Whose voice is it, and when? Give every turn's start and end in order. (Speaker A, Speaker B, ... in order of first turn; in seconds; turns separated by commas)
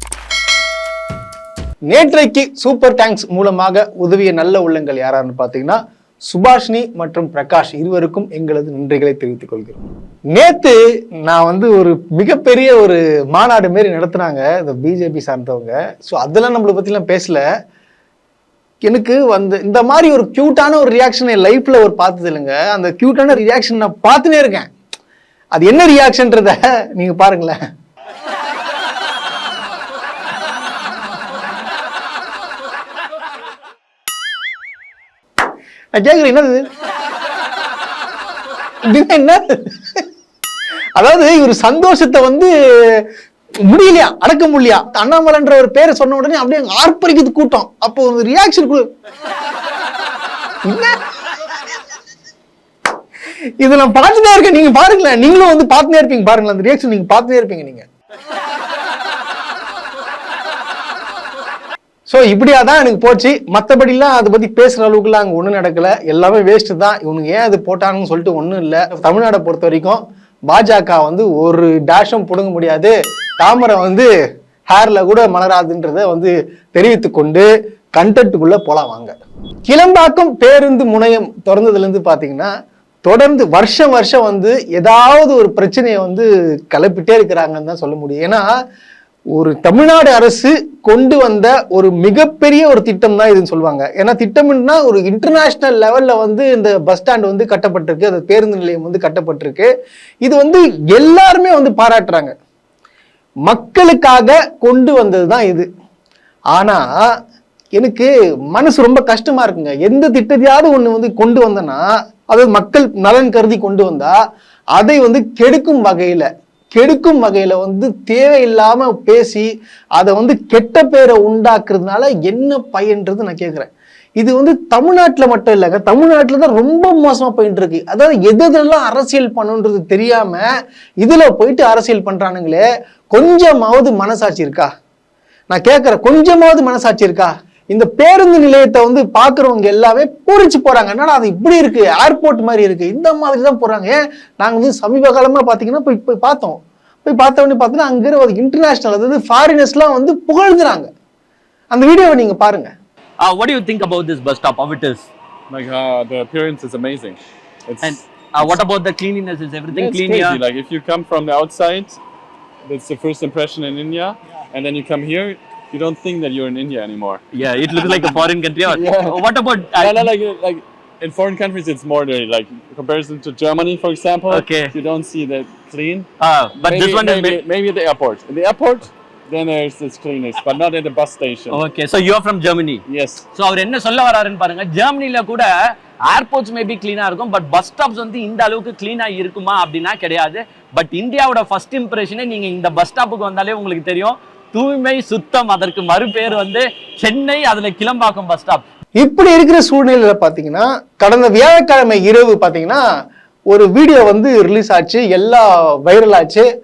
Speaker A: 1.9-17.4, Speaker A: 18.9-24.7, Speaker A: 25.5-27.6, Speaker A: 35.9-36.6, Speaker A: 38.9-39.8, Speaker A: 41.0-43.0, Speaker A: 43.7-48.9, Speaker A: 50.6-50.9, Speaker A: 53.6-57.9, Speaker A: 62.1-74.1, Speaker A: 74.7-79.1, Speaker A: 79.7-82.5, Speaker A: 83.0-88.5, Speaker A: 89.3-99.7, Speaker A: 100.2-102.3, Speaker A: 103.5-105.7, Speaker A: 106.5-106.9, Speaker A: 107.8-114.2, Speaker A: 114.7-130.5, Speaker A: 131.0-134.7, Speaker A: 135.5-150.9, Speaker A: 151.7-152.7, Speaker B: 153.2-155.1, Speaker C: 155.5-158.6, Speaker B: 157.8-160.4, Speaker C: 159.7-162.0, Speaker C: 162.7-181.6, Speaker B: 167.3-170.0, Speaker B: 174.3-174.7, Speaker B: 176.2-177.4, Speaker B: 181.5-182.8, Speaker C: 182.9-183.2, Speaker B: 183.3-198.6, Speaker A: 199.0-202.8, Speaker A: 203.5-206.5